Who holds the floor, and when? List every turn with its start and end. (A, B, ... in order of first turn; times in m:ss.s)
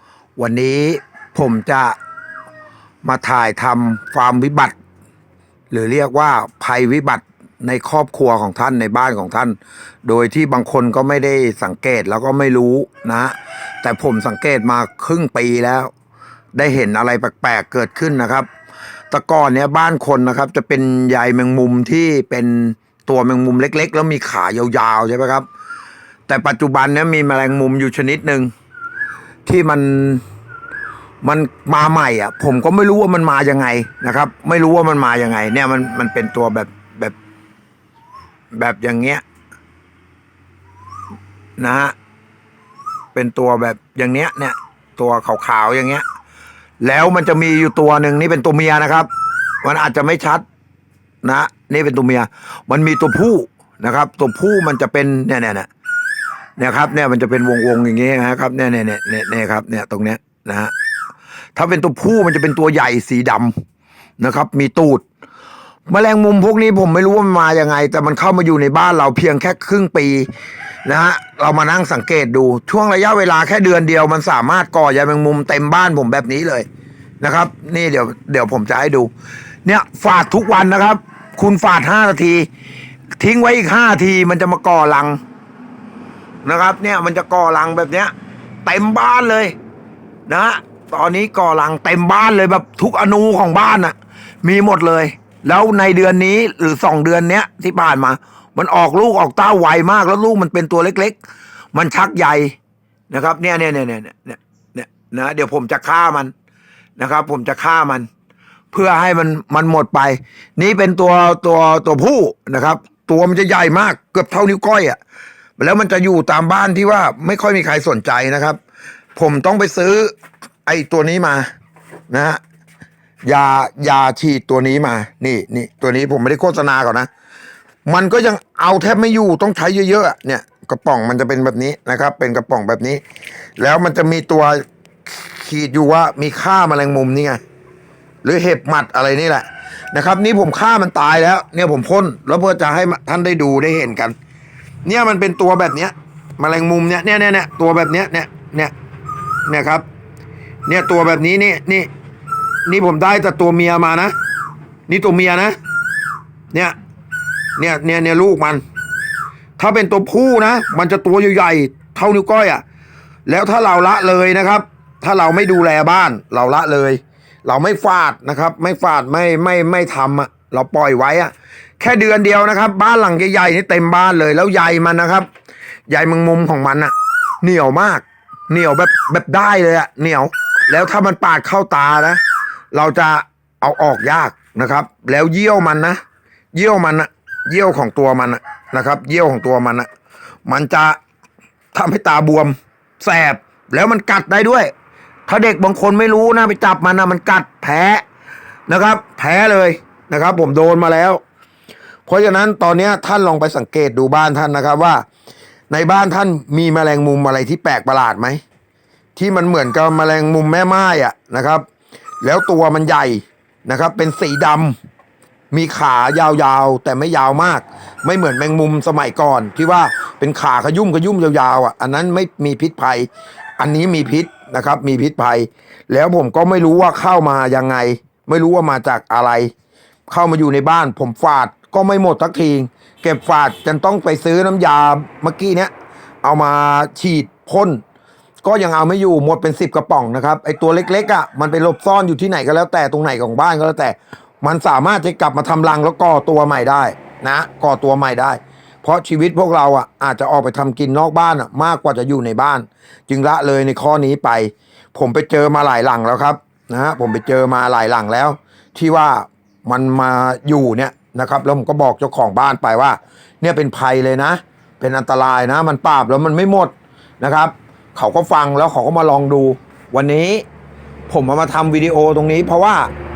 0:00.4-0:02.0 A
0:03.0-0:04.8 A
0:05.7-0:15.9 A
0:16.5-0:18.5 A
0:19.1-0:25.4 A
0:26.3-0:28.5 A
0:29.5-0:30.2 A
0:31.2-0:37.2 A
0:38.5-0:39.2 A
0:41.6-0:42.0 A
0:43.1-0:46.0 A
0:46.8-0:49.1 A
0:49.6-0:50.4 A
0:51.2-0:55.7 A
0:56.6-1:00.7 A
1:01.6-1:03.5 A
1:04.2-1:05.0 A
1:05.9-1:10.3 A
1:10.8-1:16.7 A
1:17.2-1:19.1 A
1:19.6-1:22.5 A
1:23.2-1:25.2 A
1:26.4-1:28.1 A
1:28.6-1:29.6 A
1:30.3-1:41.2 A
1:41.7-1:42.6 A
1:43.1-1:46.3 A
1:47.0-1:48.1 A
1:48.7-1:55.0 A
1:55.6-1:58.6 A
1:59.2-2:00.1 A
2:00.7-2:01.5 A
2:02.1-2:02.4 A
2:03.2-2:07.1 A
2:07.9-2:13.0 A
2:13.6-2:14.6 A
2:15.4-2:17.4 A
2:18.2-2:24.2 A
2:24.8-2:28.7 A
2:29.5-2:29.8 A
2:30.7-2:31.9 A
2:32.7-2:34.1 A
2:34.9-2:35.6 A
2:37.6-2:38.6 A
2:39.6-2:42.6 A
2:43.3-2:55.3 A
2:55.9-3:02.2 A
3:02.7-3:06.0 A
3:06.5-3:09.9 A
3:10.5-3:11.0 A
3:11.7-3:14.7 A
3:15.3-3:18.0 A
3:18.7-3:21.2 A
3:22.1-3:25.0 A
3:25.7-3:28.4 A
3:29.2-3:31.6 A
3:32.2-3:34.8 A
3:35.5-3:49.5 A
3:50.1-3:55.7 A
3:56.2-3:57.8 A
3:58.4-4:30.4 A
4:31.1-4:32.9 A